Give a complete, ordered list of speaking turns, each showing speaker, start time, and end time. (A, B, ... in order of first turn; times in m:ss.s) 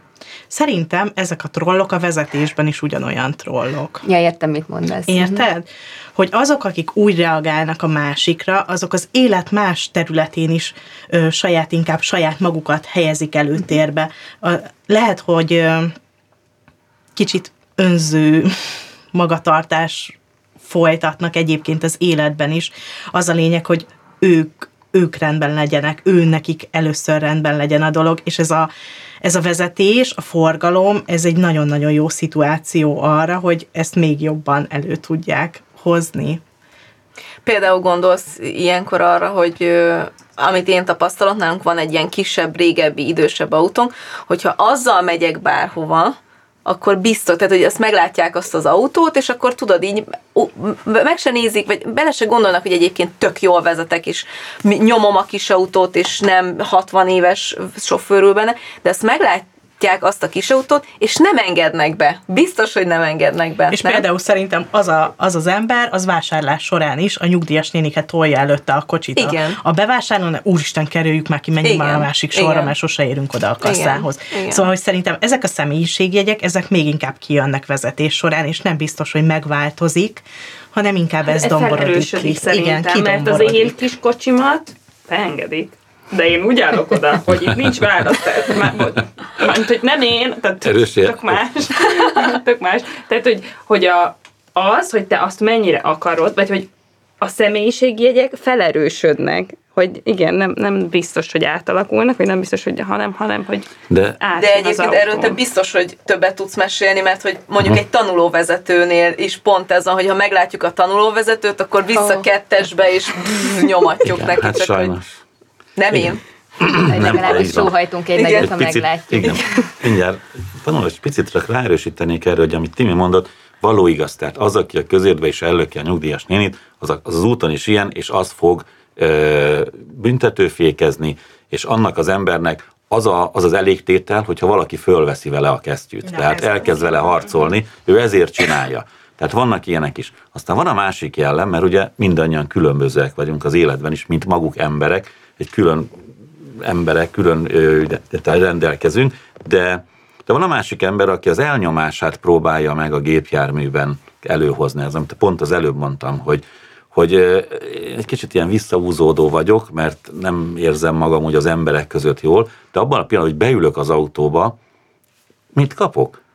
0:00.5-0:04.0 A
0:04.0-0:05.4 B
0:05.1-0:15.9 A
0:17.1-0:28.7 A
0:29.2-0:36.4 A
0:37.4-1:04.0 C
1:03.7-1:23.8 A
1:09.2-1:09.6 C
1:11.6-1:12.7 C
1:13.6-1:14.7 C
1:21.3-1:36.7 D
1:30.6-1:31.6 E
1:37.2-1:45.4 D
1:43.9-1:44.2 E
1:44.3-1:55.0 C
1:52.0-1:52.3 B
1:54.0-1:55.2 E
1:55.8-1:56.2 C
1:55.9-1:57.7 E
1:56.8-1:59.7 B
1:56.9-1:58.5 C
1:58.4-2:44.6 E
2:16.0-2:16.6 A
2:45.5-2:46.2 E